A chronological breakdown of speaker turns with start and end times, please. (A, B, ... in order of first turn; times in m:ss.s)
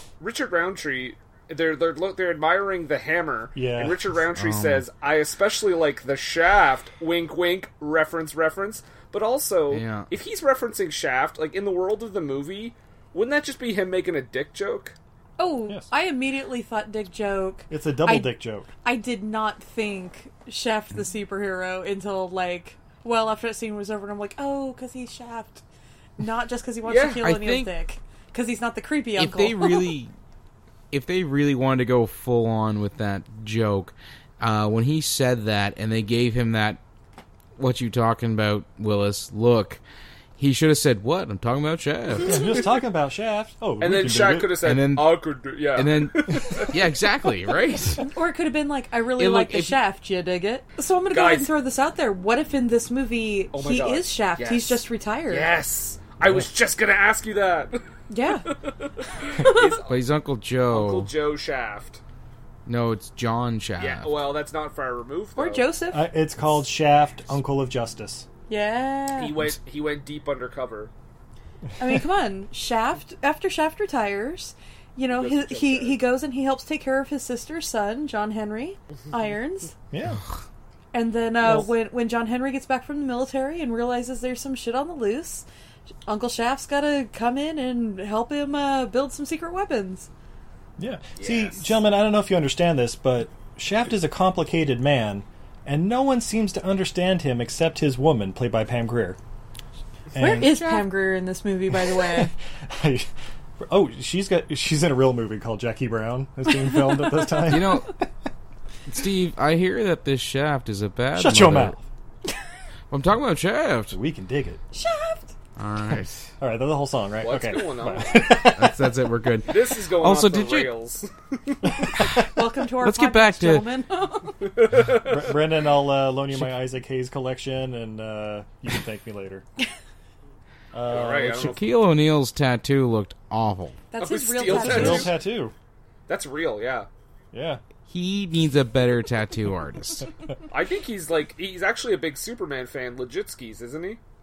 0:00.2-0:15.0 A
0:03.6-0:04.0 B
0:04.3-0:04.8 C
0:09.7-0:10.1 C
0:15.4-0:25.6 D
0:17.7-0:18.7 B
0:26.2-0:29.9 D
0:26.9-0:27.2 A
0:27.2-0:27.7 C
0:29.2-0:30.1 C
0:30.9-0:36.8 C
0:37.6-0:39.8 C
0:40.4-0:42.5 C
0:42.2-0:44.6 B
0:43.8-0:46.8 A
0:44.6-0:45.2 C
0:45.7-0:48.0 C
0:48.0-0:55.5 D
0:49.2-0:49.8 C
0:51.1-0:51.5 A
0:53.5-0:57.8 A
0:58.1-0:58.5 D
0:59.2-1:00.0 A
0:59.4-0:59.7 D
0:59.9-1:01.1 C
1:00.7-1:02.0 A
1:02.6-1:04.2 C
1:03.8-1:05.6 A
1:05.4-1:06.1 D
1:05.9-1:08.3 B
1:08.5-1:09.3 D
1:09.2-1:10.9 A
1:11.8-1:19.7 D
1:15.1-1:16.0 A
1:19.9-1:20.2 B
1:20.9-1:25.4 D
1:21.4-1:21.7 B
1:26.0-1:30.1 D
1:30.8-1:39.2 B
1:31.2-1:31.7 A
1:40.1-1:40.8 B
1:40.2-1:42.3 D
1:41.9-1:43.1 B
1:43.6-1:48.0 B
1:47.4-1:48.0 C
1:48.9-1:51.7 C
1:51.1-1:51.8 B
1:52.9-1:54.0 C
1:53.9-1:54.6 B
1:54.7-1:55.3 D
1:55.6-1:56.2 C
1:56.4-1:59.0 B
1:57.2-1:58.4 A
1:58.5-2:00.7 C
1:59.5-2:01.9 A
2:02.0-2:03.6 C
2:02.3-2:04.4 D
2:04.6-2:05.3 A
2:04.8-2:09.4 B
2:10.7-2:11.6 B
2:10.9-2:11.6 A
2:11.2-2:13.8 C
2:13.9-2:15.1 D
2:14.0-2:15.2 A
2:14.4-2:15.5 B
2:16.1-2:16.9 A
2:17.3-2:17.6 B
2:17.9-2:20.1 C
2:20.5-2:24.0 A